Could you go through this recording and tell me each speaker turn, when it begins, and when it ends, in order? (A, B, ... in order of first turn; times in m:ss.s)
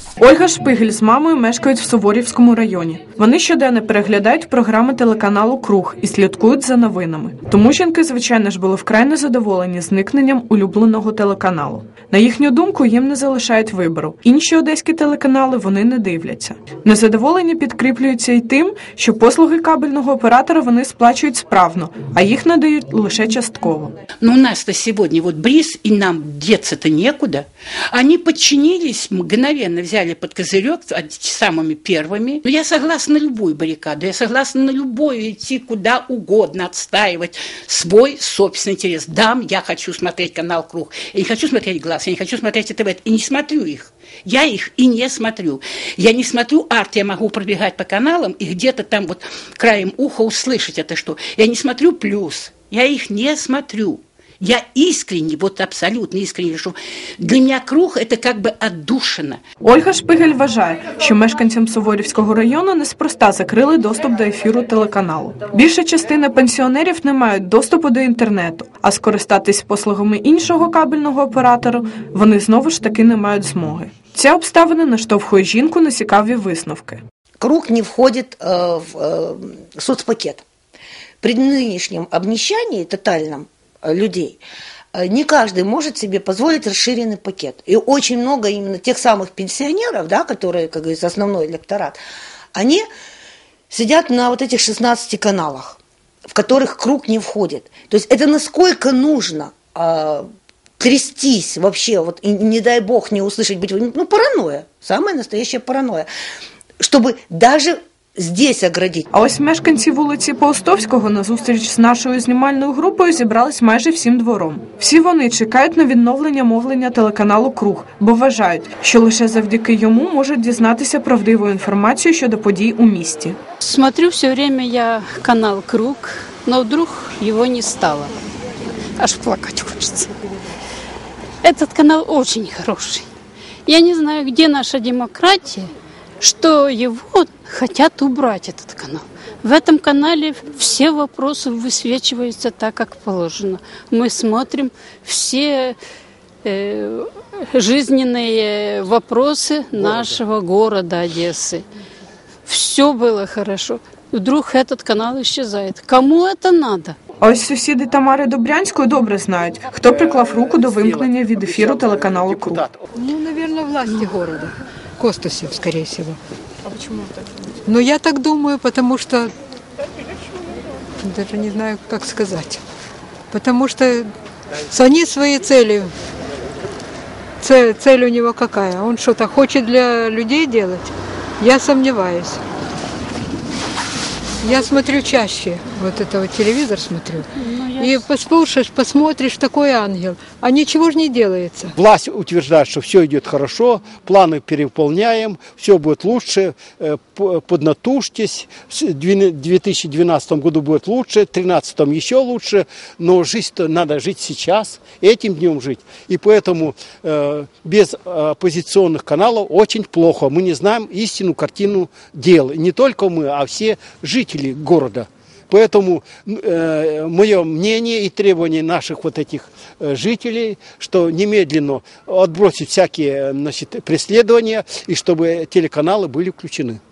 0:00.2-0:23.9 A
0:24.2-0:59.4 B
0:59.6-1:17.0 A
1:17.4-1:20.4 C
1:21.2-1:24.4 C
1:24.9-1:32.0 C
1:32.5-1:32.8 C
1:33.7-1:40.2 C
1:40.8-1:46.1 C
1:46.8-1:49.1 C
1:49.2-2:03.3 A
2:03.6-2:08.1 D
2:09.0-2:10.1 D
2:11.4-2:13.0 D
2:13.7-2:15.7 D
2:16.2-2:25.8 D
2:26.4-2:31.6 D
2:32.4-2:37.0 D
2:37.2-2:42.6 A
2:40.4-2:42.8 E
2:42.9-2:46.2 F
2:46.7-2:47.1 A
2:47.6-2:49.3 F
2:51.0-2:52.6 F
2:53.3-2:54.1 F
2:54.7-2:55.9 F
2:57.4-3:02.4 F
3:04.4-3:11.7 F
3:07.5-3:07.9 D
3:11.8-3:46.8 E